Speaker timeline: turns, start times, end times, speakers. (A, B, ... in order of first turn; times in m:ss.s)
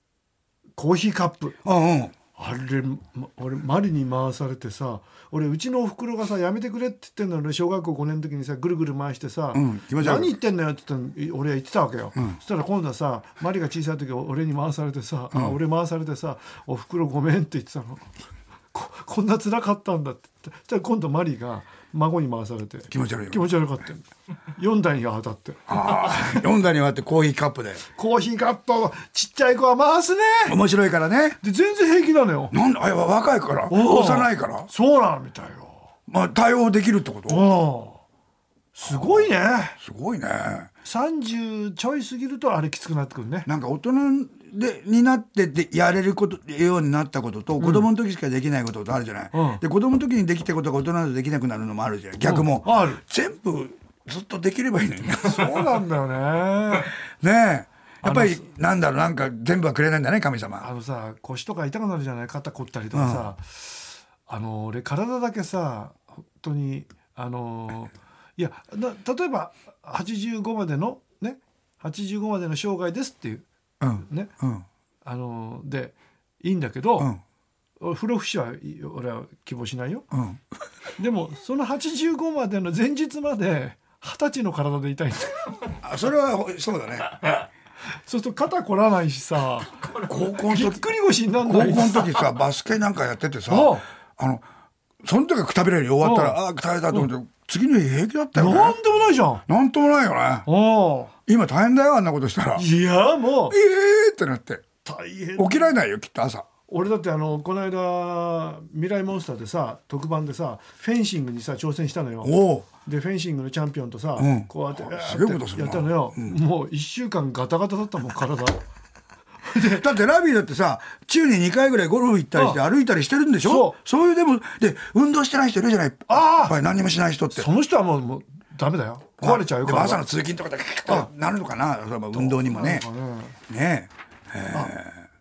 0:00.8-0:01.6 A
0:01.6-0:02.1 B
0:02.4-0:18.1 A
0:09.5-0:10.3 B
0:18.7-0:26.4 A
0:22.9-0:23.5 B
0:25.7-0:27.8 B
0:28.0-0:30.6 A
0:30.5-0:31.4 B
0:31.4-0:32.6 A
0:32.5-0:34.7 B
0:33.7-0:35.8 A
0:36.1-0:37.4 B
0:37.3-0:38.0 A
0:38.8-0:39.8 A
0:38.9-0:40.7 B
0:40.8-0:43.5 A
0:43.5-0:55.8 B
0:47.6-0:47.9 A
0:49.3-0:49.6 A
0:52.2-0:53.0 A
0:55.2-0:56.9 A
0:57.2-1:00.7 B
0:58.0-0:58.4 A
1:00.6-1:13.5 A
1:02.9-1:03.3 B
1:13.8-1:14.7 B
1:14.0-1:14.3 A
1:15.0-1:17.1 A
1:17.8-1:20.1 A
1:20.1-1:20.4 B
1:21.0-1:25.4 A
1:25.8-1:27.1 B
1:28.0-1:29.7 A
1:30.0-1:30.9 B
1:30.4-1:32.2 A
1:31.4-1:34.4 B
1:33.5-1:33.9 A
1:35.0-1:38.8 B
1:36.0-1:36.4 A
1:38.4-1:39.4 A
1:39.5-1:40.5 B
1:40.5-1:41.1 A
1:41.3-1:42.7 B
1:42.6-1:43.6 A
1:43.5-1:44.6 B
1:44.8-1:45.7 A
1:45.4-1:46.5 B
1:46.7-1:58.6 A
1:52.2-1:52.7 B
1:54.2-1:56.4 B
1:59.4-1:59.8 A
1:59.6-2:07.5 B
2:03.4-2:03.8 A
2:06.1-2:06.6 A
2:07.4-2:10.0 A
2:09.2-2:12.9 B
2:12.1-2:13.4 A
2:13.5-2:15.0 B